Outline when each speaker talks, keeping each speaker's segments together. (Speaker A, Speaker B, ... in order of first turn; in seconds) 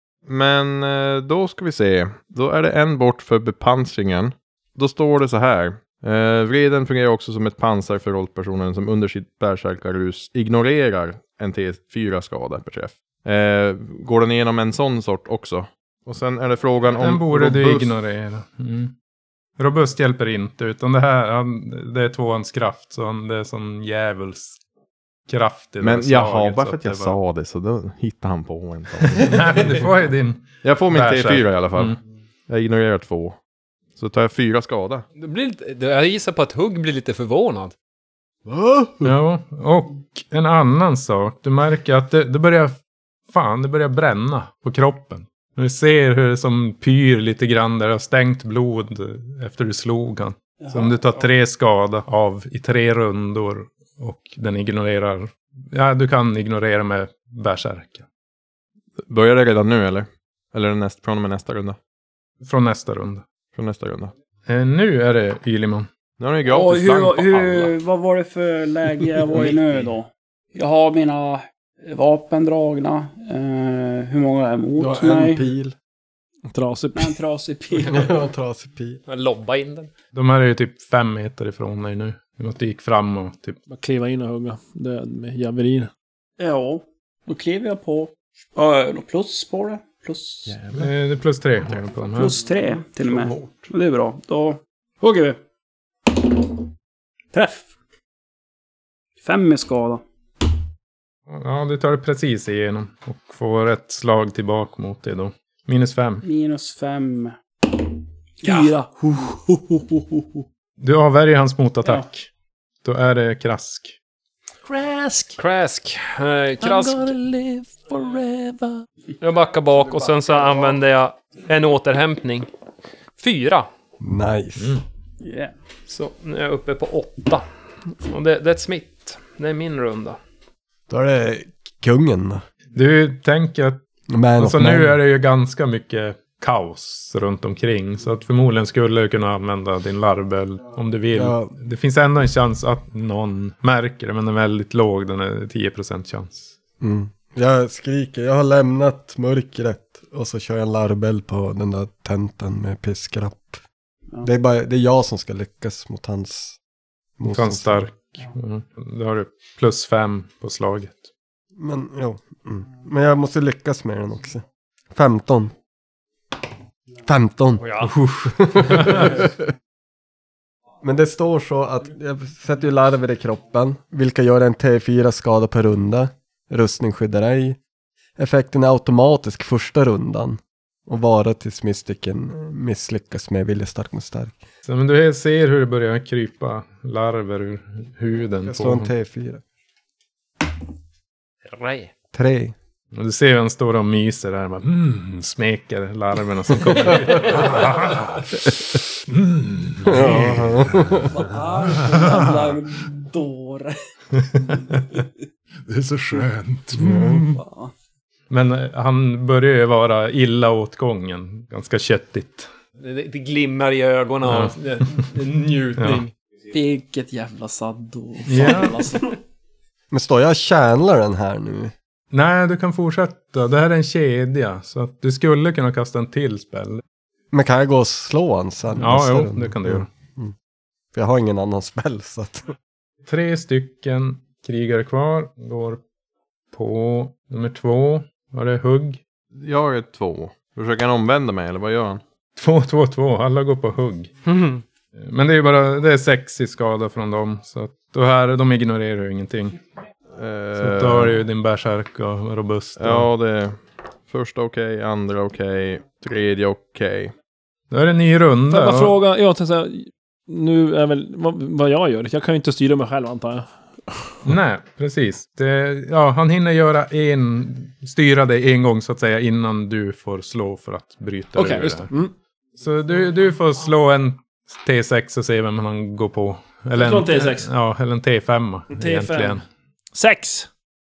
Speaker A: 0.3-17.9, 25.8-29.9, 30.6-32.0, 32.5-33.4, 34.0-35.0, 59.1-61.8, 63.5-64.1, 66.2-67.7, 239.3-242.0, 250.2-251.2, 252.8-257.1
Speaker B: 17.0-18.9, 19.6-24.6, 25.3-27.2, 29.2-32.0, 39.0-42.8, 43.3-58.0, 62.4-63.2, 64.5-65.9, 80.1-83.6, 90.7-92.4, 101.3-106.2, 110.8-112.3, 112.8-114.0, 132.7-133.8, 134.4-146.5, 157.3-161.1, 167.9-169.1, 184.7-188.9, 192.9-198.5, 199.9-200.5, 208.3-212.5, 214.2-214.6, 215.8-216.0, 218.3-218.8, 222.1-226.8, 228.8-229.9, 233.1-235.8, 236.5-239.0, 242.4-244.1, 245.0-249.6, 250.6-253.1, 257.7-258.9, 264.2-271.9, 272.6-279.4
Speaker C: 35.2-37.7, 79.1-79.9, 115.4-117.2, 119.2-122.5, 123.2-123.7, 125.9-127.5, 128.0-130.2, 167.6-167.9, 191.5-191.9, 212.8-216.1, 244.3-244.6
Speaker D: 38.5-39.1, 74.8-75.8, 77.9-79.0, 124.0-124.8, 130.9-132.4, 134.1-135.0, 141.1-141.6, 146.8-153.6, 154.2-156.6, 157.2-157.9, 161.6-165.5, 167.0-169.4, 170.8-177.6, 178.2-184.4, 188.4-189.4, 192.1-192.6, 199.8-201.1, 206.8-207.2, 219.9-221.7, 227.3-230.3, 230.9-232.5
Speaker E: 50.6-51.3, 66.5-75.4, 77.0-78.1, 86.4-90.6, 92.1-95.4, 97.3-97.7, 99.2-100.0, 106.2-107.4, 108.4-109.8, 125.2-125.5, 201.0-203.8, 207.3-207.7, 216.5-219.2
Speaker F: 69.3-69.8, 76.5-77.2, 83.7-85.9, 114.7-115.4, 116.6-118.8, 258.5-263.5, 271.4-272.1, 276.8-277.5, 278.7-279.4, 279.9-280.5
Speaker G: 199.1-201.1, 201.7-202.2, 205.7-207.4